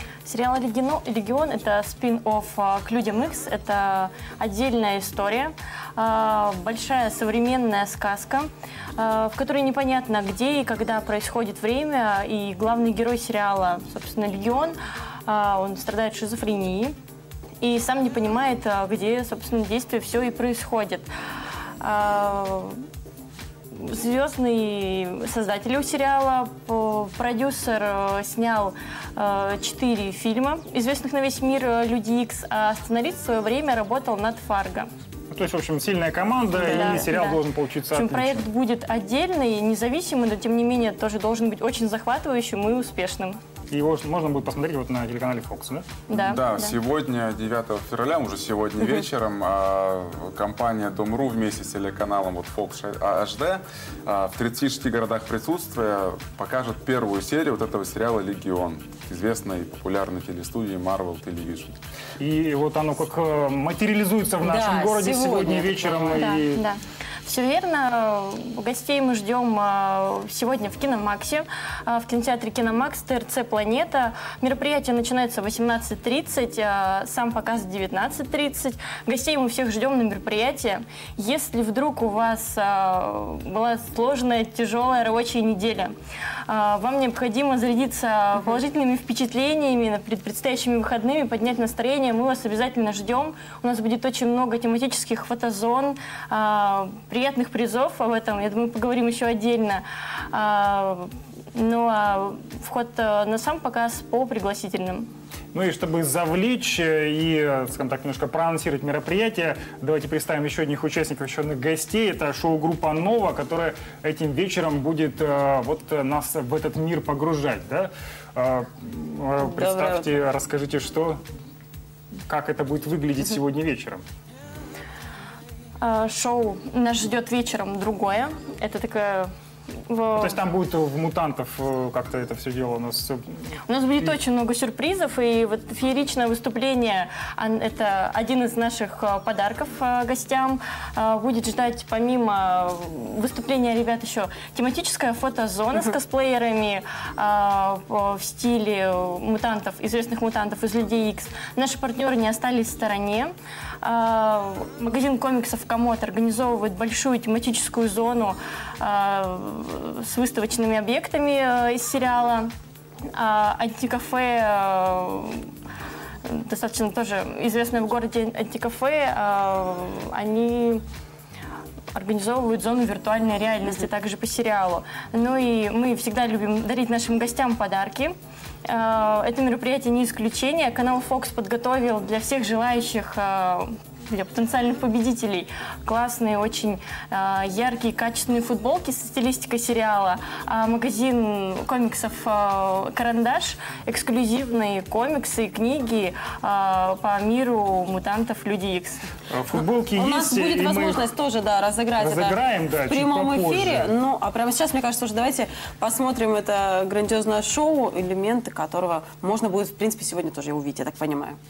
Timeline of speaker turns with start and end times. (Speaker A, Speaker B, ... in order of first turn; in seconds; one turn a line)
Speaker A: 0.2-16.9
Speaker A: 17.6-21.1
Speaker A: 21.8-22.8
Speaker A: 23.7-34.9
Speaker B: 35.3-38.5
Speaker A: 36.5-37.4
Speaker A: 37.9-43.4
Speaker B: 43.7-45.9
Speaker A: 46.1-46.7
Speaker C: 46.1-61.8
Speaker B: 62.2-66.6
Speaker D: 64.4-66.3
Speaker A: 66.1-85.9
Speaker A: 86.5-105.1
Speaker B: 105.5-121.2
Speaker D: 119.5-120.1
Speaker B: 122.3-124.0
Speaker A: 125.8-129.3
Speaker A: 129.9-130.4
Speaker B: 130.2-133.4
Speaker A: 133.7-162.5
Speaker A: 163.1-165.5
Speaker A: 166.2-170.8
Speaker A: 171.9-178.1
Speaker A: 178.7-199.1
Speaker B: 199.3-201.1
Speaker D: 199.9-211.4
Speaker B: 202.0-203.9